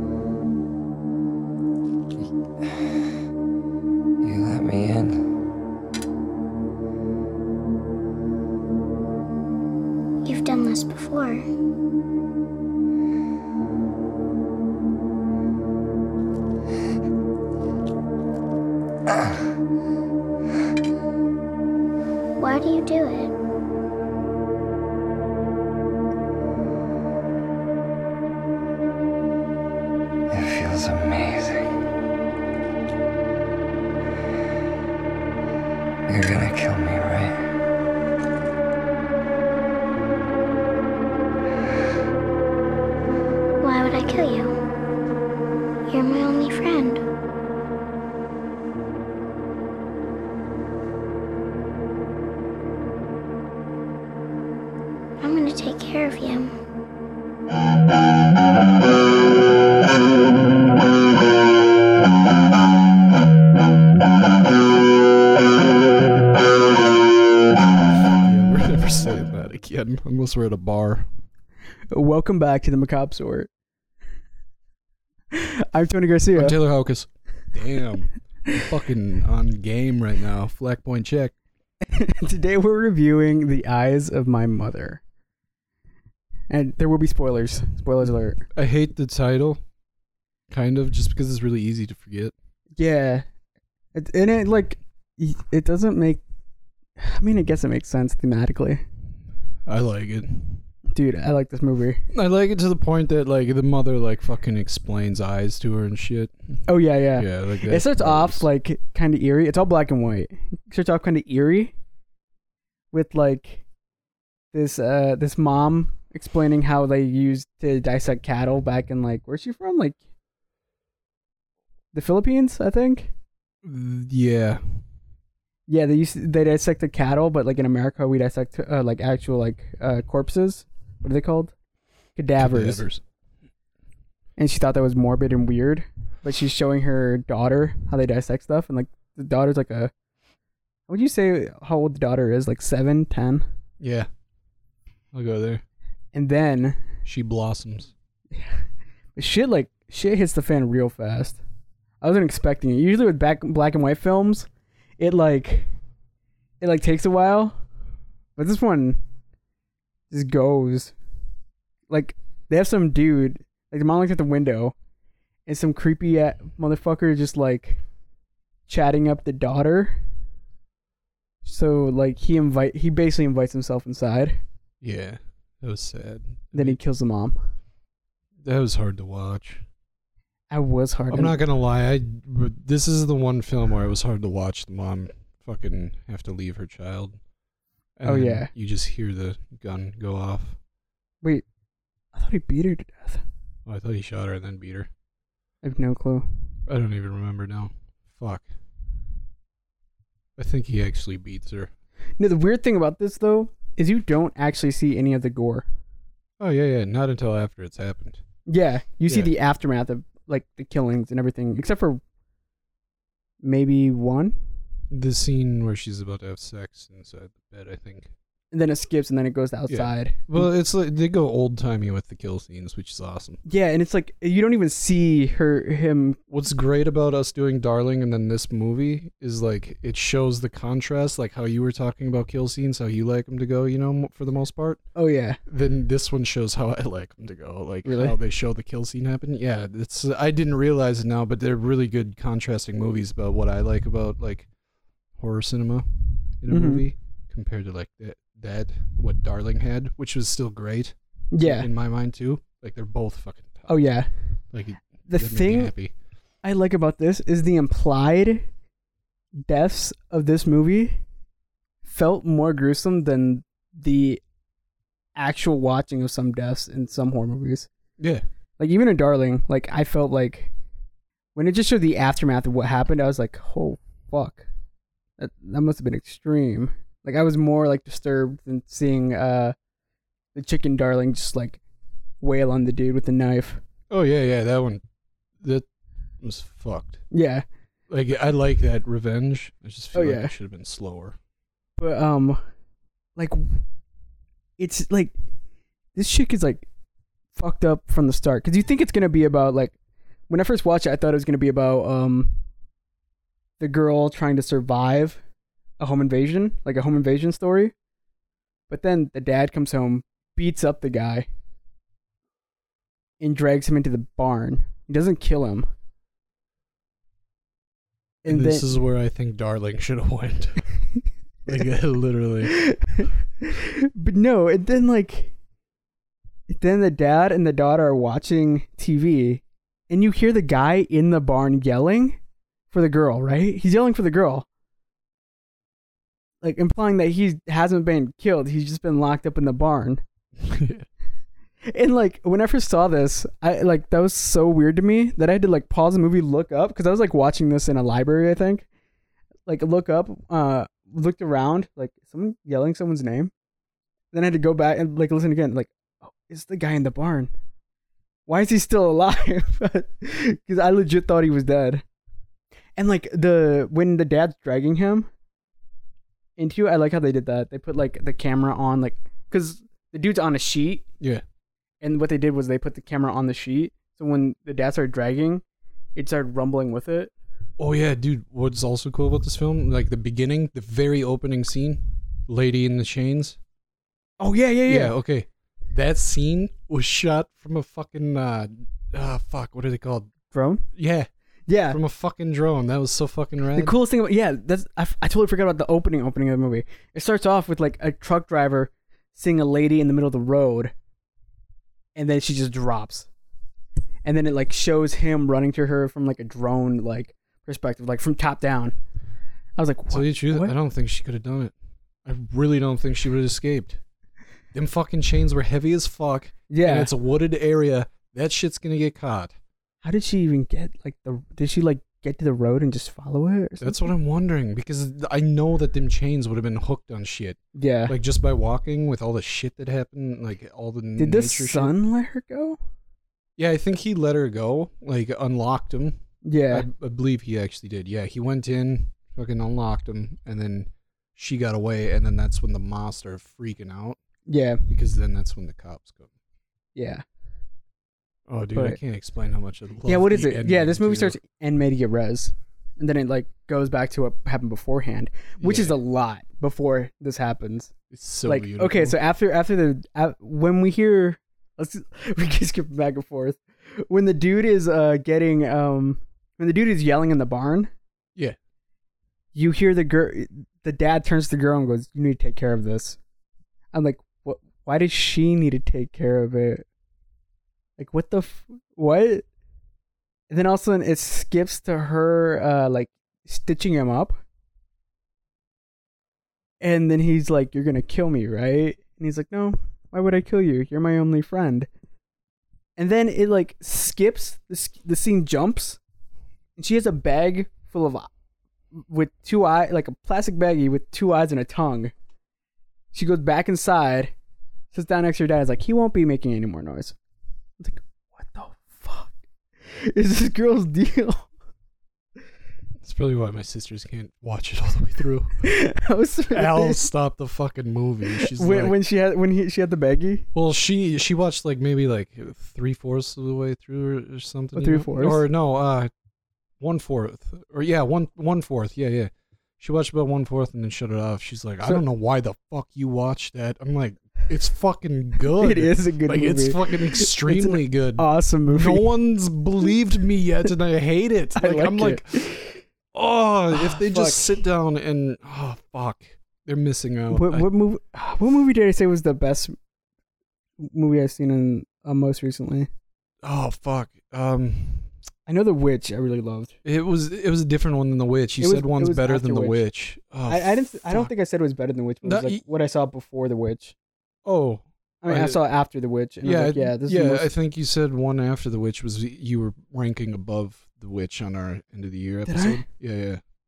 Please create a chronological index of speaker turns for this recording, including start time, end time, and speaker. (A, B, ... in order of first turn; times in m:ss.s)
0:04.2-0:05.2 A
0:10.2-0:11.4 B
0:22.4-0:23.3 B
0:30.3-0:31.7 A
0:36.1-0:37.4 A
0:43.6-0:44.6 B
0:45.9-0:47.0 B
0:55.2-0:56.5 B
1:08.1-1:11.1 C
1:11.9-1:13.5 D
1:15.3-1:16.6 D
1:16.3-1:21.3 C
1:21.8-1:25.0 D
1:26.5-1:28.4 D
1:28.5-1:29.6 C
1:30.5-1:32.3 C
1:32.8-1:33.2 D
1:33.9-1:36.2 D
1:37.0-1:38.8 D
1:39.6-1:40.6 C
1:40.9-1:42.0 D
1:42.1-1:46.6 C
1:46.7-1:51.7 D
1:47.1-1:48.5 C
1:52.9-1:53.6 D
1:54.5-2:00.0 D
2:01.9-2:03.1 D
2:03.6-2:04.8 C
2:05.7-2:11.5 D
2:12.2-2:12.8 D
2:12.4-2:13.0 C
2:14.4-2:19.9 D
2:20.9-2:23.4 D
2:23.8-2:24.1 C
2:25.1-2:25.6 C
2:26.1-2:26.8 D
2:27.0-2:27.9 C
2:28.3-2:28.6 D
2:29.2-2:31.4 D
2:32.0-2:35.7 D
2:36.6-2:37.6 D
2:38.4-2:39.0 D
2:40.1-2:40.9 D
2:41.9-2:44.7 D
2:45.4-2:47.8 D
2:48.7-2:50.0 D
2:51.4-2:54.4 D
2:54.8-2:56.8 C
2:56.5-2:57.4 D
2:58.4-2:59.6 C
3:00.5-3:01.4 D
3:01.1-3:07.2 C
3:08.0-3:10.6 C
3:08.0-3:08.5 D
3:12.1-3:13.2 D
3:13.6-3:14.9 C
3:15.6-3:16.3 D
3:16.7-3:18.5 C
3:20.4-3:21.7 C
3:22.2-3:25.6 D
3:26.4-3:28.2 C
3:28.5-3:32.0 D
3:33.4-3:34.3 D
3:34.9-3:38.1 C
3:38.5-3:40.5 D
3:39.7-3:43.4 C
3:43.4-3:46.2 D
3:46.3-3:54.8 C
3:55.0-3:55.4 D
3:55.5-4:04.5 C
3:57.8-3:58.2 D
4:05.2-4:05.9 C
4:06.4-4:13.7 C
4:06.5-4:06.8 D
4:11.3-4:11.7 D
4:13.7-4:14.1 D
4:14.5-4:15.9 C
4:15.1-4:15.7 D
4:16.4-4:18.4 D
4:19.4-4:21.0 D
4:21.8-4:24.2 D
4:25.2-4:27.7 D
4:28.6-4:30.5 D
4:31.3-4:34.5 D
4:35.2-4:39.5 D
4:40.3-4:41.6 D
4:42.2-4:43.6 D
4:43.9-4:44.8 C
4:45.4-4:45.6 C
4:46.2-4:47.0 C
4:47.1-4:47.4 D
4:47.9-4:51.2 C
4:49.9-4:50.3 D
4:51.8-4:52.4 D
4:53.2-4:53.4 D
4:54.6-4:55.1 D
4:55.9-4:56.7 D
4:57.3-4:59.8 D
5:00.3-5:02.4 D
5:03.6-5:05.2 D
5:05.8-5:07.7 D
5:08.7-5:11.3 D
5:13.2-5:15.7 D
5:18.2-5:18.7 D
5:18.2-5:20.6 C
5:21.4-5:22.6 C
5:22.5-5:25.3 D
5:26.5-5:32.2 D
5:32.7-5:34.4 D
5:36.4-5:40.0 D
5:40.4-5:40.8 C
5:41.6-5:48.6 D
5:49.5-5:53.3 D
5:54.1-5:57.3 D
5:58.3-6:01.8 D
6:02.8-6:05.1 D
6:06.4-6:10.8 D
6:11.8-6:15.4 D
6:15.9-6:17.1 D
6:17.6-6:23.4 C
6:24.2-6:24.9 D
6:24.7-6:30.1 C
6:30.3-6:30.6 D
6:30.7-6:31.1 C
6:31.5-6:31.8 D
6:31.7-6:33.7 C
6:33.5-6:40.7 D
6:41.9-6:43.1 D
6:44.0-6:48.7 D
6:49.6-6:50.5 D
6:49.9-6:51.5 C
6:52.0-6:53.8 C
6:54.5-6:59.3 C
6:56.5-6:56.9 D
6:59.8-7:03.9 D
7:03.6-7:11.7 C
7:07.5-7:07.9 D
7:11.0-7:12.6 D
7:13.4-7:16.0 C
7:16.2-7:16.7 D
7:16.5-7:24.0 C
7:24.3-7:24.6 D
7:24.7-7:26.1 C
7:26.7-7:27.0 D
7:28.3-7:31.2 C
7:29.8-7:37.7 D
7:35.4-7:35.8 C
7:37.9-7:39.0 C
7:38.2-7:47.7 D
7:49.3-7:53.0 D
7:53.7-7:56.6 D
7:57.8-7:59.2 D
8:00.3-8:04.2 D
8:06.6-8:11.7 D
8:12.8-8:15.8 D
8:16.6-8:18.1 D
8:18.7-8:21.9 D
8:22.9-8:24.1 D
8:24.7-8:27.0 D
8:27.6-8:29.1 D
8:29.7-8:31.3 D
8:32.8-8:35.5 C
8:35.4-8:36.8 D
8:36.3-8:38.7 C
8:38.1-8:40.3 D
8:40.3-8:45.9 C
8:44.5-8:45.2 D
8:46.6-9:02.4 C
8:55.4-8:58.9 D
9:01.4-9:02.6 D
9:02.9-9:07.5 C
9:03.5-9:04.4 D
9:07.1-9:09.5 D
9:10.6-9:12.7 D
9:13.2-9:14.9 C
9:15.2-9:16.6 D
9:16.6-9:21.1 C
9:18.4-9:19.6 D
9:20.3-9:23.7 D
9:22.0-9:22.4 C
9:24.2-9:25.4 C
9:25.0-9:27.3 D
9:26.2-9:33.2 C
9:32.3-9:32.6 D